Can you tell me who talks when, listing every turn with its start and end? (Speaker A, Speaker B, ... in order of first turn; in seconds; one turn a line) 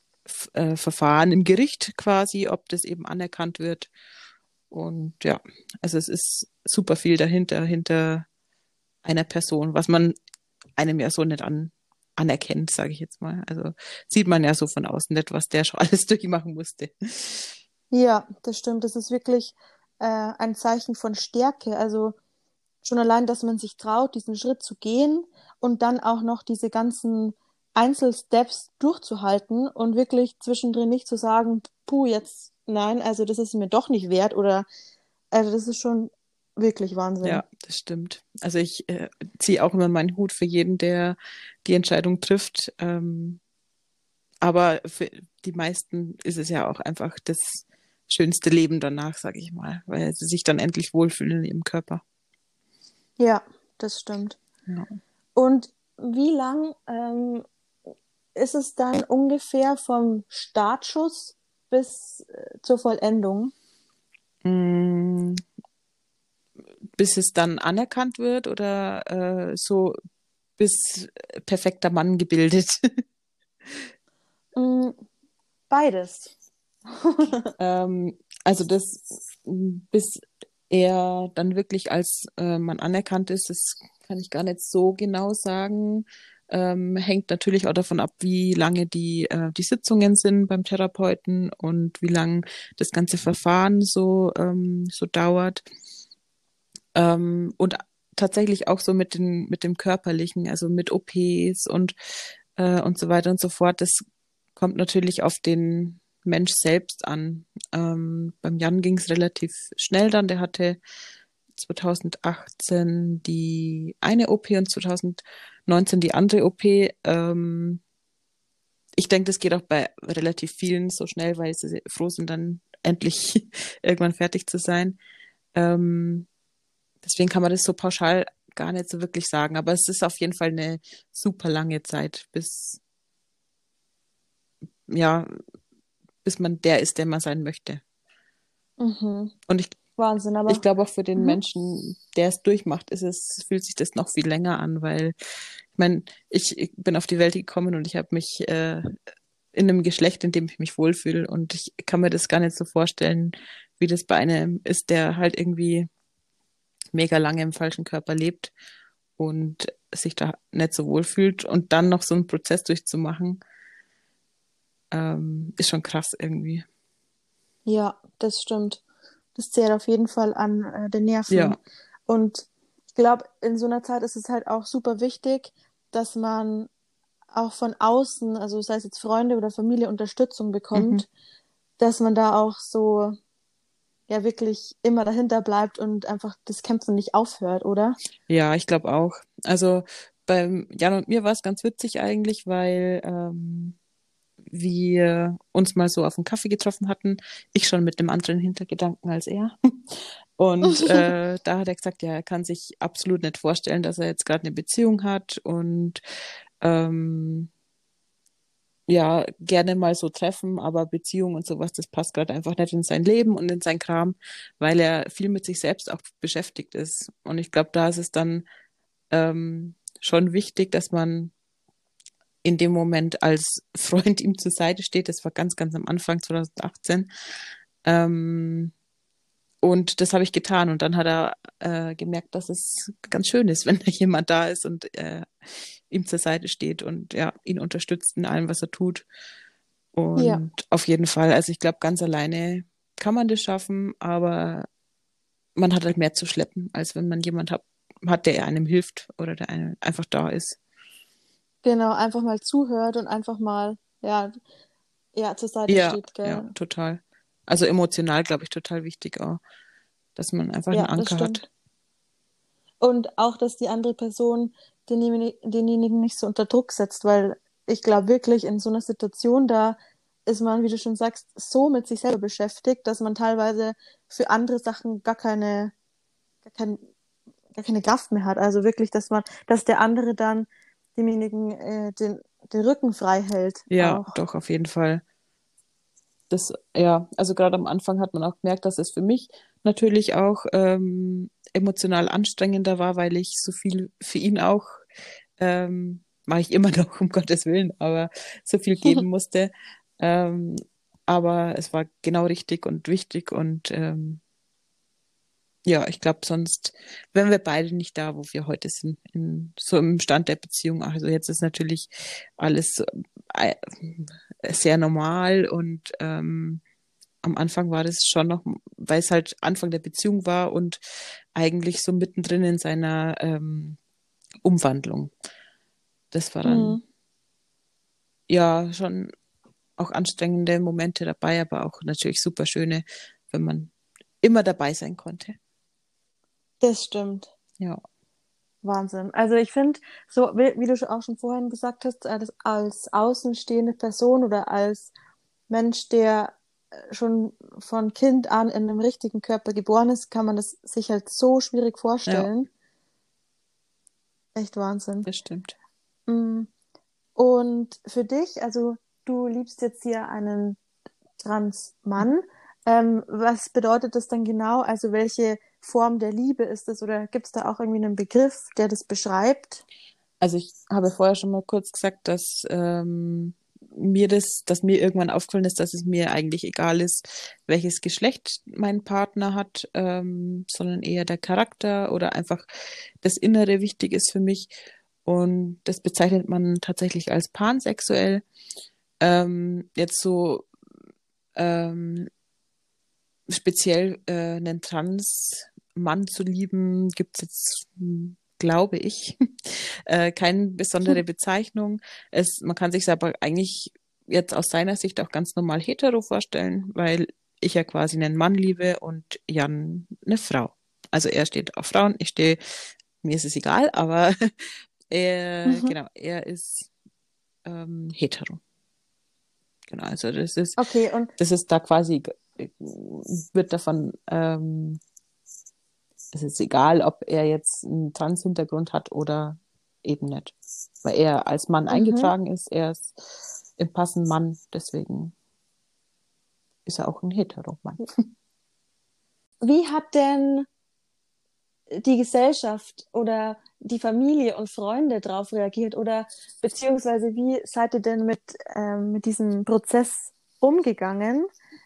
Speaker A: 0.3-3.9
Speaker A: 4.7-8.3
Speaker A: 9.0-10.2
Speaker A: 10.8-17.6
Speaker B: 17.9-22.1
Speaker B: 22.8-34.7
Speaker B: 35.3-37.4
Speaker A: 37.2-43.4
Speaker A: 44.4-52.0
Speaker B: 53.2-54.4
Speaker B: 55.3-57.4
Speaker B: 58.4-63.5
Speaker A: 64.4-65.4
Speaker A: 67.0-70.0
Speaker A: 70.6-73.0
Speaker A: 73.6-73.9
Speaker B: 74.5-75.0
Speaker B: 75.7-76.3
Speaker B: 76.9-77.5
Speaker A: 77.6-95.6
Speaker A: 96.9-101.9
Speaker A: 102.5-104.0
Speaker A: 104.5-110.8
Speaker A: 111.5-117.8
Speaker A: 119.0-125.0
Speaker A: 125.5-126.3
Speaker A: 127.0-132.8
Speaker A: 134.9-135.3
Speaker A: 136.2-137.8
Speaker B: 138.8-139.3
Speaker A: 139.5-139.8
Speaker B: 140.0-140.6
Speaker A: 140.5-145.1
Speaker A: 145.7-148.9
Speaker A: 149.5-155.9
Speaker A: 156.9-158.5
Speaker A: 159.2-163.4
Speaker A: 164.9-166.7
Speaker B: 167.7-168.8
Speaker B: 169.3-176.7
Speaker A: 171.3-171.6
Speaker B: 177.3-181.1
Speaker A: 180.7-181.0
Speaker B: 181.8-183.2
Speaker B: 184.1-188.0
Speaker A: 188.3-193.8
Speaker A: 194.5-206.0
Speaker B: 200.7-201.1
Speaker A: 206.6-207.5
Speaker A: 208.9-218.4
Speaker A: 219.1-221.3
Speaker A: 222.4-227.1
Speaker A: 227.8-228.7
Speaker A: 229.6-239.0
Speaker A: 239.9-244.7
Speaker B: 240.2-240.4
Speaker A: 245.6-250.6
Speaker B: 251.6-254.3
Speaker B: 255.1-256.5
Speaker A: 255.7-259.4
Speaker A: 260.1-261.5
Speaker B: 260.7-261.5
Speaker B: 262.8-275.7
Speaker B: 276.4-276.8
Speaker B: 277.5-284.2
Speaker A: 283.7-285.0
Speaker A: 286.3-294.9
Speaker A: 295.4-304.2
Speaker A: 305.6-316.6
Speaker A: 317.2-320.8
Speaker A: 321.3-323.8
Speaker A: 324.4-325.1
Speaker A: 326.1-326.8
Speaker B: 326.4-326.8
Speaker A: 328.3-329.1
Speaker A: 329.8-335.4
Speaker B: 336.6-337.3
Speaker B: 338.6-344.9
Speaker B: 345.5-352.5
Speaker B: 354.3-355.1
Speaker A: 355.0-355.5
Speaker B: 356.1-356.5
Speaker B: 357.1-360.6
Speaker B: 361.2-369.6
Speaker A: 370.2-382.4
Speaker A: 383.0-384.5
Speaker A: 385.0-388.2
Speaker A: 389.0-390.5
Speaker A: 391.3-392.1
Speaker A: 393.3-412.4
Speaker A: 413.0-416.7
Speaker B: 415.4-415.7
Speaker A: 417.4-418.4
Speaker A: 419.7-420.6
Speaker B: 420.6-421.1
Speaker A: 421.2-424.8
Speaker A: 426.1-435.1
Speaker B: 431.7-432.1
Speaker A: 436.6-437.8
Speaker B: 439.4-440.5
Speaker B: 441.7-451.3